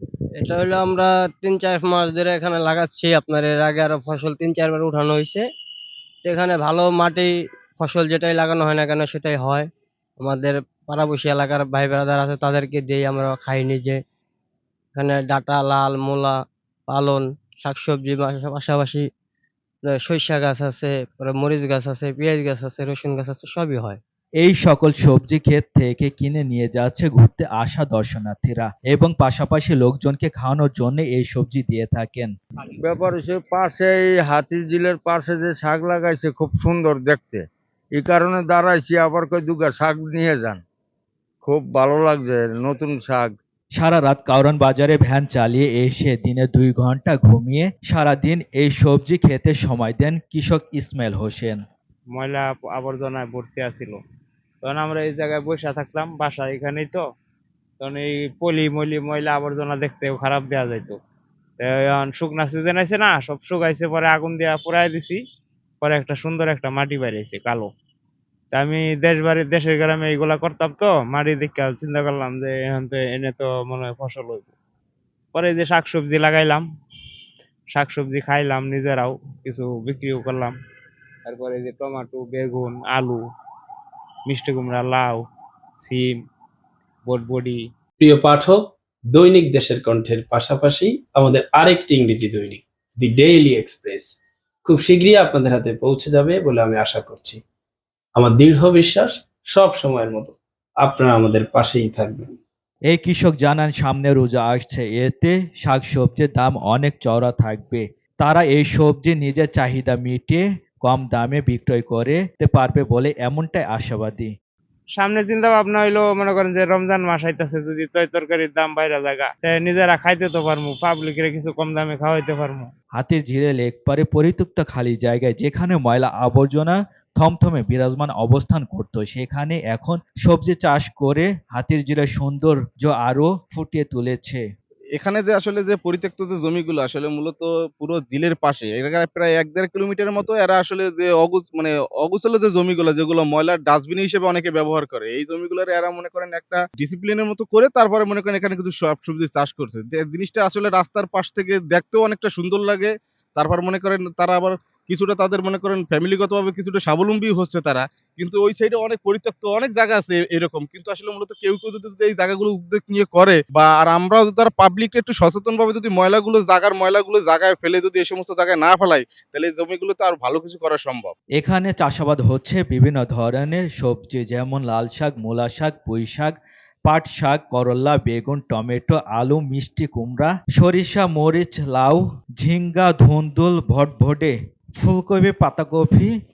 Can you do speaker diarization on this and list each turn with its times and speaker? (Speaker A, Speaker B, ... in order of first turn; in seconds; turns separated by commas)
Speaker A: 0.4-5.4, Speaker A: 6.2-9.7, Speaker A: 10.2-14.0, Speaker A: 14.9-16.3, Speaker A: 16.9-19.0, Speaker A: 19.9-24.0, Speaker B: 24.4-32.3, Speaker C: 32.8-40.6, Speaker C: 41.4-43.4, Speaker B: 43.8-51.6, Speaker D: 52.1-54.0, Speaker D: 54.6-57.0, Speaker D: 57.8-61.0, Speaker D: 61.6-65.2, Speaker D: 65.8-67.7, Speaker D: 68.5-74.5, Speaker D: 75.3-76.7, Speaker D: 77.7-80.5, Speaker D: 81.3-83.2, Speaker D: 84.3-85.2, Speaker D: 85.8-86.2, Speaker D: 87.1-87.6, Speaker E: 88.0-97.4, Speaker E: 98.2-102.4, Speaker B: 102.9-114.3, Speaker D: 115.0-122.7, Speaker B: 123.0-134.4, Speaker F: 135.0-171.1, Speaker B: 171.4-176.3, Speaker B: 176.9-186.1